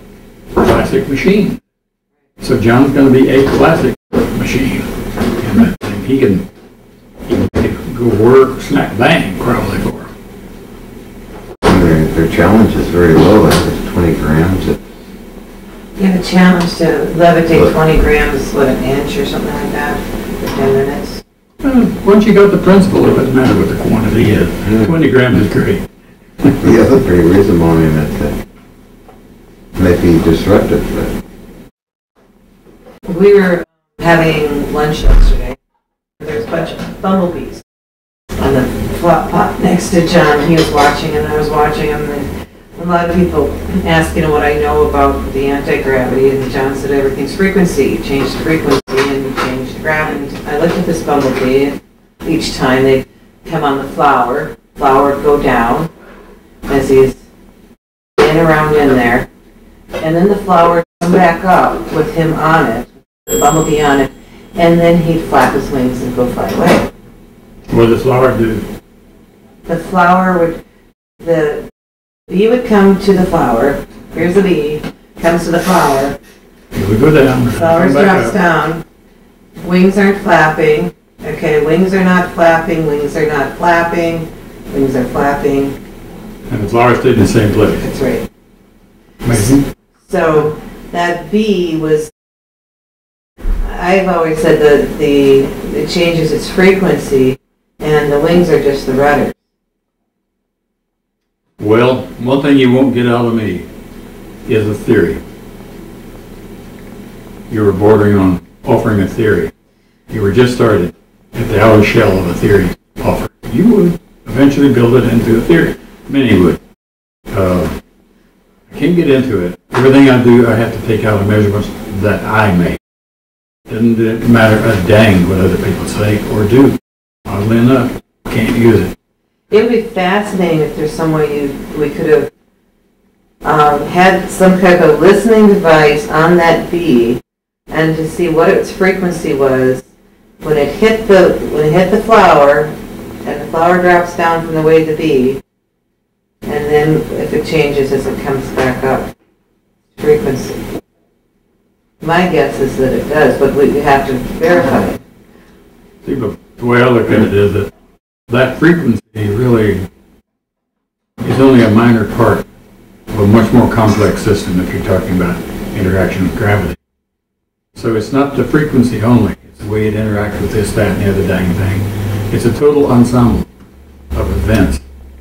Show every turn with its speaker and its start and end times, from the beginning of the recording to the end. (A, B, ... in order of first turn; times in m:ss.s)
0:00.6-0:01.6 A
0:02.4-0:06.4 A
0:07.3-0:10.1 A
0:11.6-0:14.8 B
0:16.0-0:21.2 C
0:21.6-0:25.8 A
0:24.6-0:24.9 B
0:26.6-0:28.4 B
0:29.8-0:31.1 B
0:33.0-0:35.6 C
0:36.2-0:37.6 C
0:38.4-0:55.9 C
0:56.7-0:57.2 C
0:58.2-0:59.3 C
1:00.0-1:06.9 C
1:07.7-1:08.6 A
1:09.6-1:10.6 C
1:11.2-1:11.7 C
1:12.3-1:16.2 C
1:16.7-1:18.4 A
1:17.5-1:18.8 C
1:19.6-1:25.8 C
1:26.5-1:27.9 A
1:27.8-1:28.2 C
1:29.2-1:29.7 A
1:30.1-1:32.1 C
1:33.6-1:39.4 C
1:41.6-1:43.6 A
1:44.4-1:45.2 A
1:47.5-1:49.5 A
1:50.1-1:56.6 A
1:57.3-1:57.8 A
1:58.7-2:02.8 A
2:03.7-2:08.9 A
2:09.5-2:12.3 C
2:13.4-2:19.8 C
2:20.4-2:25.4 C
2:26.4-2:29.1 C
2:30.0-2:30.6 C
2:32.0-2:35.0 C
2:36.0-2:37.7 A
2:38.3-2:39.9 A
2:41.2-2:42.4 A
2:43.1-2:46.8 A
2:47.8-2:53.5 A
2:54.1-2:54.8 A